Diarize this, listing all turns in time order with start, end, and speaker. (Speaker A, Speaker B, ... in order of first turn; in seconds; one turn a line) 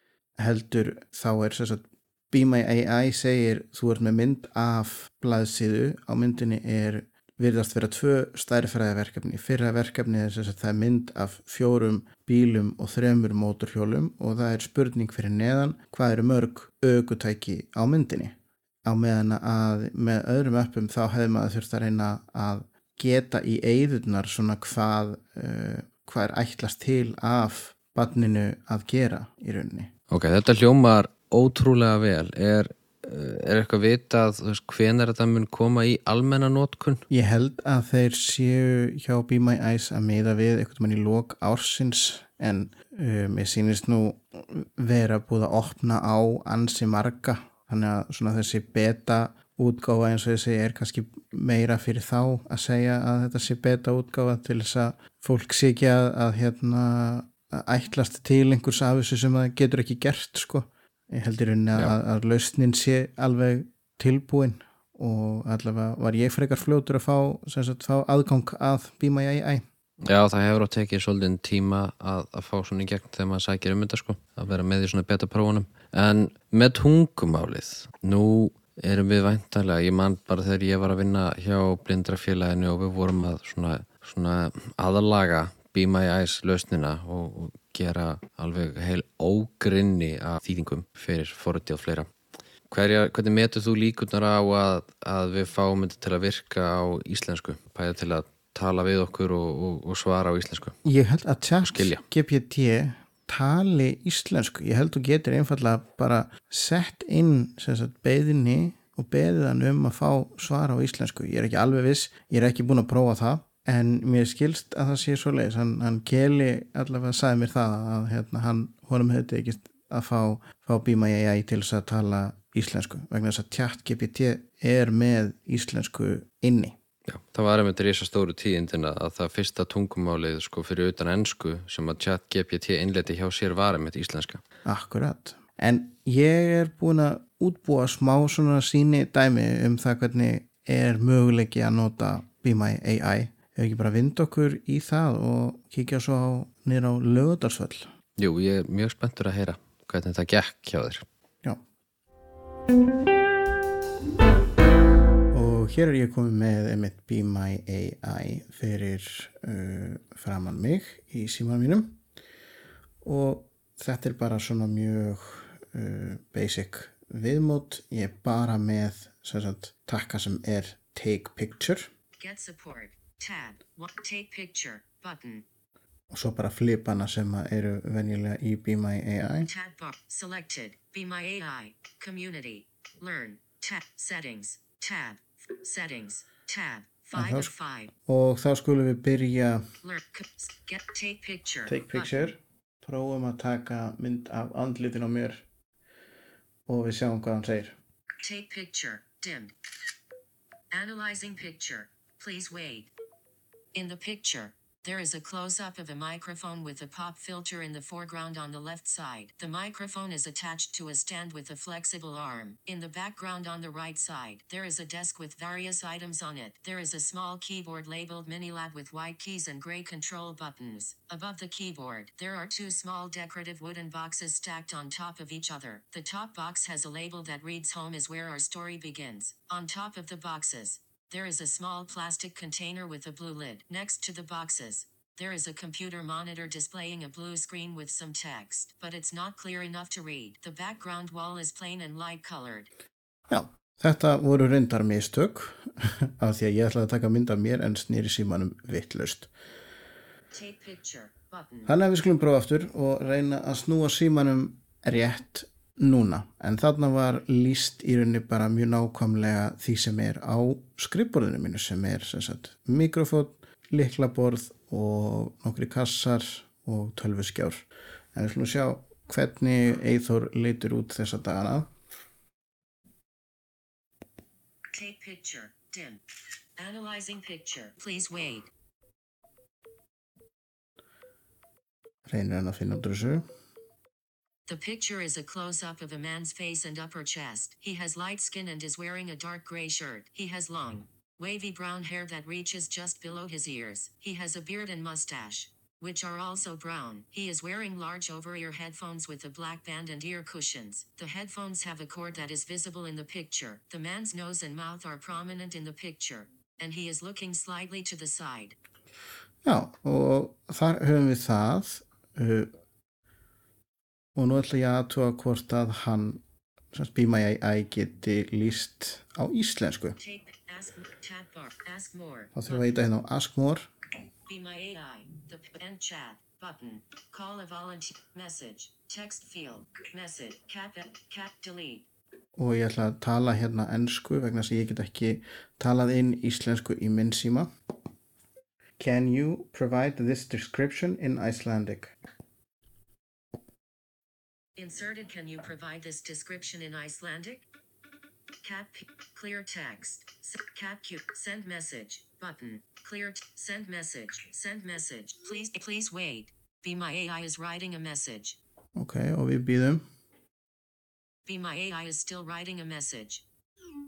Speaker A: 0.4-29.9
Speaker B: 30.1-37.0
Speaker A: 37.1-69.7
Speaker B: 70.0-92.1
Speaker B: 92.7-100.7
Speaker A: 100.8-126.8
Speaker B: 101.6-102.0
Speaker B: 127.1-134.4
Speaker A: 134.7-147.9
Speaker B: 148.2-151.0
Speaker A: 155.3-162.0
Speaker A: 163.0-171.9
Speaker C: 172.2-175.4
Speaker A: 176.1-179.5
Speaker C: 179.4-187.9
Speaker A: 187.1-187.5
Speaker A: 188.1-189.7
Speaker C: 189.8-192.3
Speaker A: 191.7-195.4
Speaker A: 196.7-197.8
Speaker C: 198.2-199.5
Speaker C: 200.7-202.9
Speaker C: 203.7-242.7
Speaker A: 243.3-249.3
Speaker C: 250.3-251.7
Speaker A: 251.7-271.7
Speaker C: 274.7-276.0
Speaker C: 276.6-278.5
Speaker A: 282.1-283.2
Speaker C: 284.4-308.6
Speaker A: 309.4-312.5
Speaker A: 314.1-316.2
Speaker A: 316.7-320.0
Speaker C: 320.0-322.6
Speaker A: 322.4-323.7
Speaker C: 324.2-331.9
Speaker A: 332.4-337.5
Speaker A: 338.8-341.9
Speaker C: 344.6-347.4
Speaker C: 348.4-358.4
Speaker A: 358.8-359.9
Speaker C: 361.2-363.2